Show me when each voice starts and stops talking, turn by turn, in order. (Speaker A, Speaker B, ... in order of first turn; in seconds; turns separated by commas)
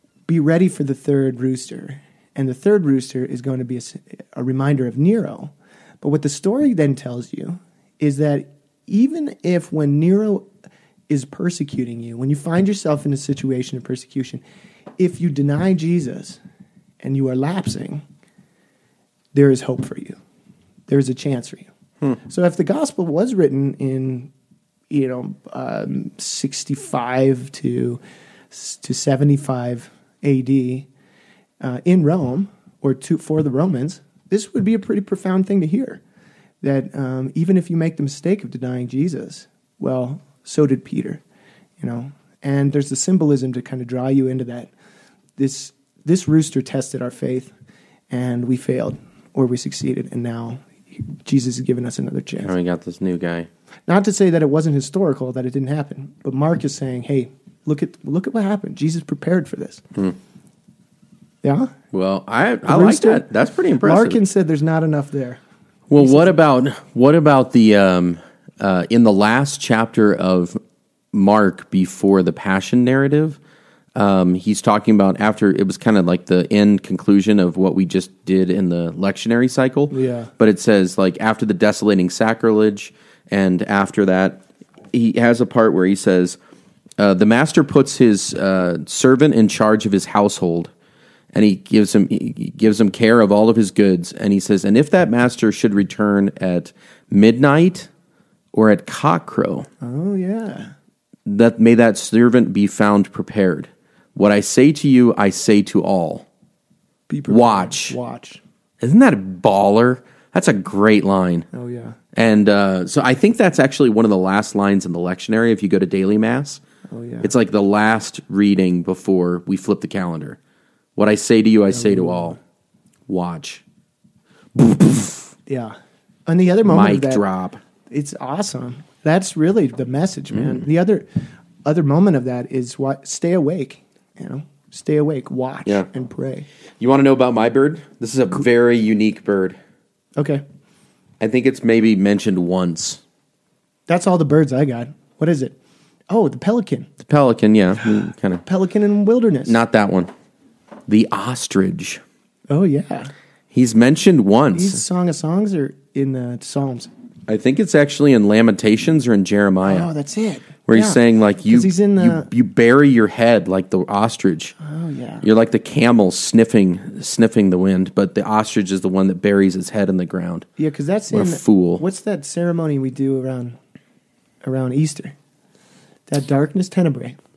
Speaker A: 0.3-10.5, Speaker A: 11.1-14.4, Speaker A: 15.0-16.4, Speaker A: 17.0-18.0, Speaker A: 19.3-20.2, Speaker A: 20.9-21.7, Speaker A: 22.2-24.3, Speaker A: 24.9-28.0, Speaker A: 28.5-30.9, Speaker A: 31.6-36.0, Speaker A: 36.6-41.2, Speaker A: 41.8-44.7, Speaker A: 45.4-47.5, Speaker A: 48.1-52.5, Speaker B: 52.4-53.5, Speaker A: 53.9-59.8, Speaker A: 61.4-61.7, Speaker B: 61.9-64.2, Speaker A: 62.6-63.3, Speaker A: 63.8-65.4, Speaker B: 65.9-70.6, Speaker A: 66.0-66.4, Speaker B: 71.1-73.4, Speaker B: 74.0-86.4, Speaker A: 79.9-80.3, Speaker B: 87.0-90.7, Speaker B: 91.3-97.9, Speaker B: 98.5-99.7, Speaker A: 99.8-100.7, Speaker B: 101.3-106.3, Speaker A: 107.1-108.4, Speaker B: 107.3-108.0, Speaker B: 108.8-111.5, Speaker A: 111.5-112.0, Speaker B: 112.2-116.6, Speaker A: 116.9-117.3, Speaker B: 117.2-120.4, Speaker B: 121.0-122.4, Speaker A: 121.7-122.4, Speaker B: 123.1-123.6, Speaker B: 124.5-125.3, Speaker A: 125.5-125.8, Speaker A: 126.3-127.2, Speaker B: 126.7-127.6, Speaker A: 127.9-136.5, Speaker B: 130.3-130.6, Speaker B: 136.8-139.6, Speaker A: 140.2-140.4, Speaker B: 141.2-143.0, Speaker A: 143.9-145.6, Speaker A: 146.1-146.9, Speaker B: 147.0-148.4, Speaker A: 148.4-149.6, Speaker B: 149.5-150.1, Speaker B: 150.9-152.0, Speaker A: 152.5-153.1, Speaker B: 153.5-154.8, Speaker A: 154.5-156.9, Speaker B: 157.3-159.9, Speaker A: 159.7-162.3, Speaker B: 160.7-164.6, Speaker A: 164.6-165.3, Speaker B: 165.2-170.5, Speaker A: 170.6-173.6, Speaker B: 171.1-171.8, Speaker A: 174.4-175.2, Speaker A: 176.1-177.2